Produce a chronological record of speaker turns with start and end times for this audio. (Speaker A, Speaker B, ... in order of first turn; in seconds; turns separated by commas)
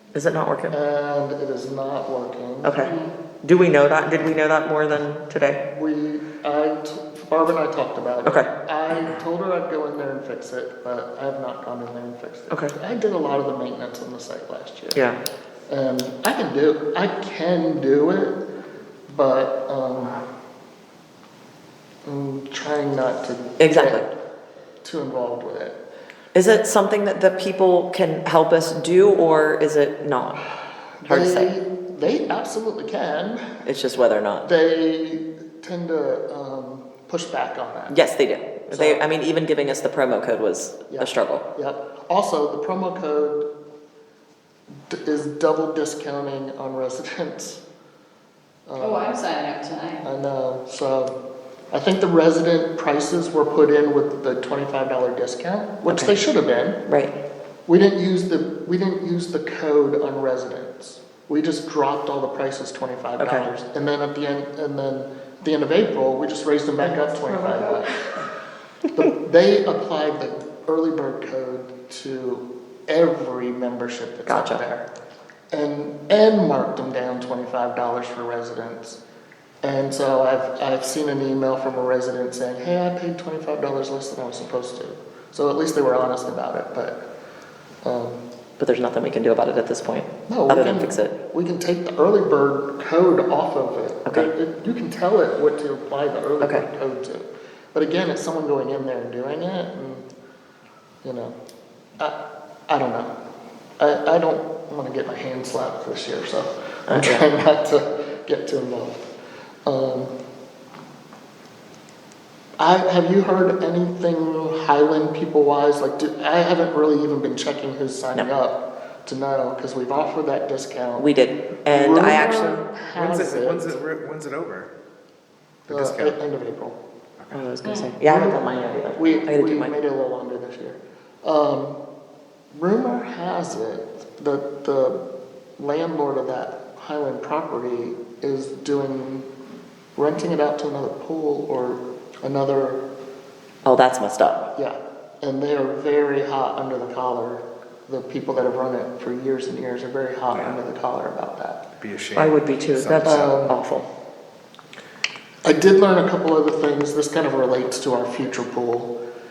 Speaker A: 0.1-0.8, Speaker B: 0.7-2.8, Speaker A: 2.6-5.6, Speaker C: 2.8-3.1, Speaker B: 5.7-15.0, Speaker A: 8.2-8.5, Speaker B: 15.7-18.4, Speaker B: 19.1-20.2, Speaker B: 22.0-24.1, Speaker A: 23.6-24.1, Speaker B: 24.8-25.8, Speaker A: 26.3-30.4, Speaker A: 31.0-31.5, Speaker B: 31.0-33.4, Speaker A: 33.6-34.5, Speaker B: 34.4-38.0, Speaker A: 37.9-41.5, Speaker B: 38.7-39.1, Speaker B: 40.9-43.5, Speaker B: 44.9-47.6, Speaker B: 48.7-49.2, Speaker C: 48.8-50.1, Speaker B: 50.0-51.1, Speaker B: 51.7-56.8, Speaker A: 55.9-56.2, Speaker A: 56.9-57.1, Speaker B: 57.7-68.0, Speaker A: 63.2-63.5, Speaker C: 67.2-67.6, Speaker B: 68.9-74.9, Speaker A: 74.3-74.6, Speaker B: 75.5-79.0, Speaker B: 79.6-87.0, Speaker B: 87.8-88.2, Speaker A: 88.6-91.2, Speaker B: 90.3-100.1, Speaker B: 101.0-101.3, Speaker B: 102.0-103.1, Speaker B: 103.8-109.1, Speaker A: 106.9-107.2, Speaker B: 109.7-110.1, Speaker B: 112.6-121.1, Speaker A: 121.0-122.6, Speaker B: 121.7-123.8, Speaker D: 122.8-124.7, Speaker D: 125.7-126.2, Speaker B: 125.7-126.8, Speaker D: 127.2-127.5, Speaker A: 127.3-129.7, Speaker C: 127.6-127.9, Speaker B: 128.0-128.4, Speaker B: 128.9-131.8, Speaker B: 132.5-135.0, Speaker B: 135.6-139.3, Speaker B: 139.9-142.8, Speaker A: 143.6-144.4, Speaker B: 144.6-151.6, Speaker D: 150.3-150.6, Speaker D: 151.8-153.5, Speaker A: 152.2-153.9, Speaker B: 153.0-153.6, Speaker B: 155.4-158.9